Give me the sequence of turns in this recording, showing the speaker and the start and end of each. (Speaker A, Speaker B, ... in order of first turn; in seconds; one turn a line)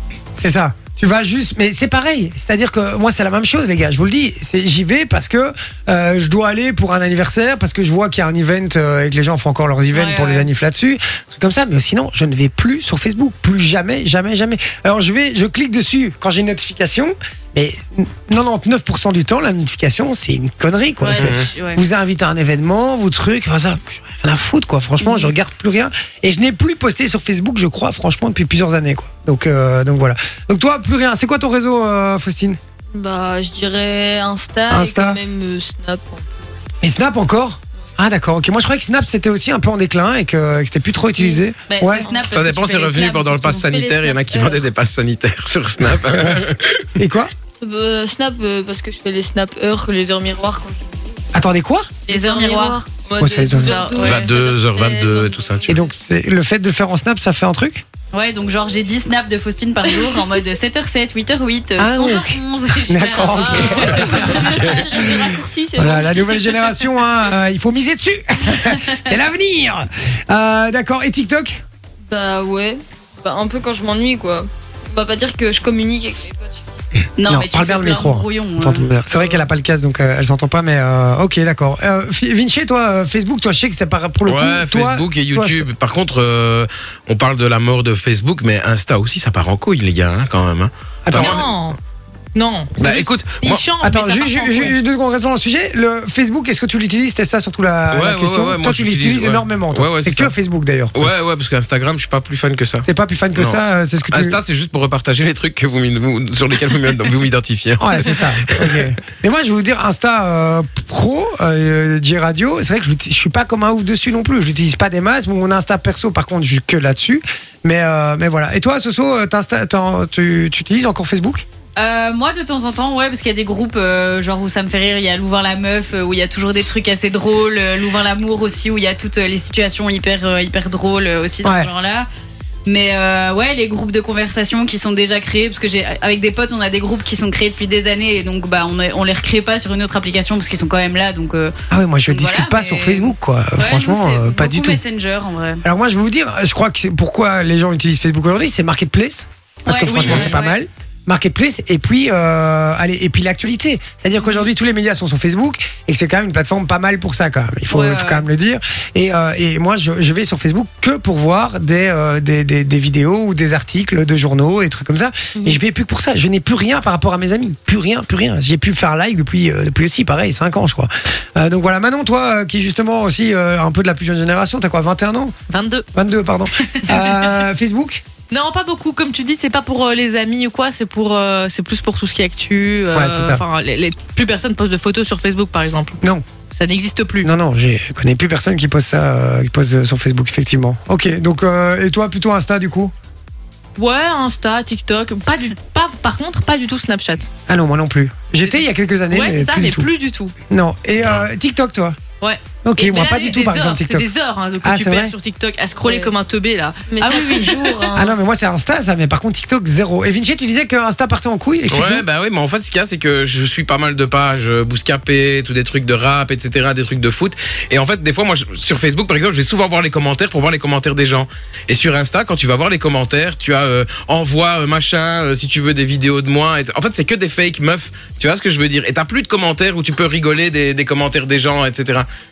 Speaker A: 0.4-32.6
Speaker B: 9.9-10.5
Speaker B: 21.0-21.8
Speaker C: 21.2-21.5
Speaker D: 32.9-36.5
Speaker A: 34.7-35.2
Speaker A: 36.8-42.0
Speaker B: 41.2-43.6
Speaker D: 42.0-42.3
Speaker C: 42.3-47.0
Speaker D: 43.6-44.7
Speaker A: 46.0-46.4
Speaker A: 47.0-47.3
Speaker D: 47.6-51.3
Speaker A: 51.3-51.9
Speaker B: 52.1-52.8
Speaker D: 52.1-55.8
Speaker A: 53.2-53.8
Speaker E: 53.6-53.9
Speaker B: 53.7-54.2
Speaker C: 54.0-55.7
Speaker A: 55.7-57.8
Speaker B: 58.1-64.9
Speaker D: 59.9-60.3
Speaker A: 61.8-71.6
Speaker D: 63.4-66.6
Speaker D: 72.1-76.8
Speaker B: 77.2-79.4
Speaker A: 77.2-85.7
Speaker C: 84.2-91.4
Speaker A: 91.0-91.4
Speaker E: 91.1-91.8
Speaker E: 92.3-94.7
Speaker C: 92.8-93.7
Speaker A: 93.8-101.1
Speaker C: 97.9-100.3
Speaker C: 100.9-108.8
Speaker A: 102.8-104.4
Speaker A: 107.8-121.4
Speaker B: 121.8-132.1
Speaker A: 131.4-131.7
Speaker B: 132.7-145.6
Speaker A: 141.7-144.8
Speaker A: 145.6-175.3
Speaker B: 149.7-150.6
Speaker E: 150.0-150.3
Speaker B: 154.2-154.5
Speaker B: 157.7-158.3
Speaker E: 175.5-175.8
Speaker A: 175.9-178.0
Speaker E: 178.3-187.3
Speaker A: 182.9-183.4
Speaker A: 187.2-192.9
Speaker E: 193.8-197.3
Speaker A: 197.5-199.9
Speaker E: 198.4-200.3
Speaker A: 200.5-202.0
Speaker E: 202.2-207.9
Speaker A: 202.6-204.1
Speaker A: 204.6-205.1
Speaker D: 206.9-208.1
Speaker A: 207.9-212.0
Speaker C: 211.7-232.1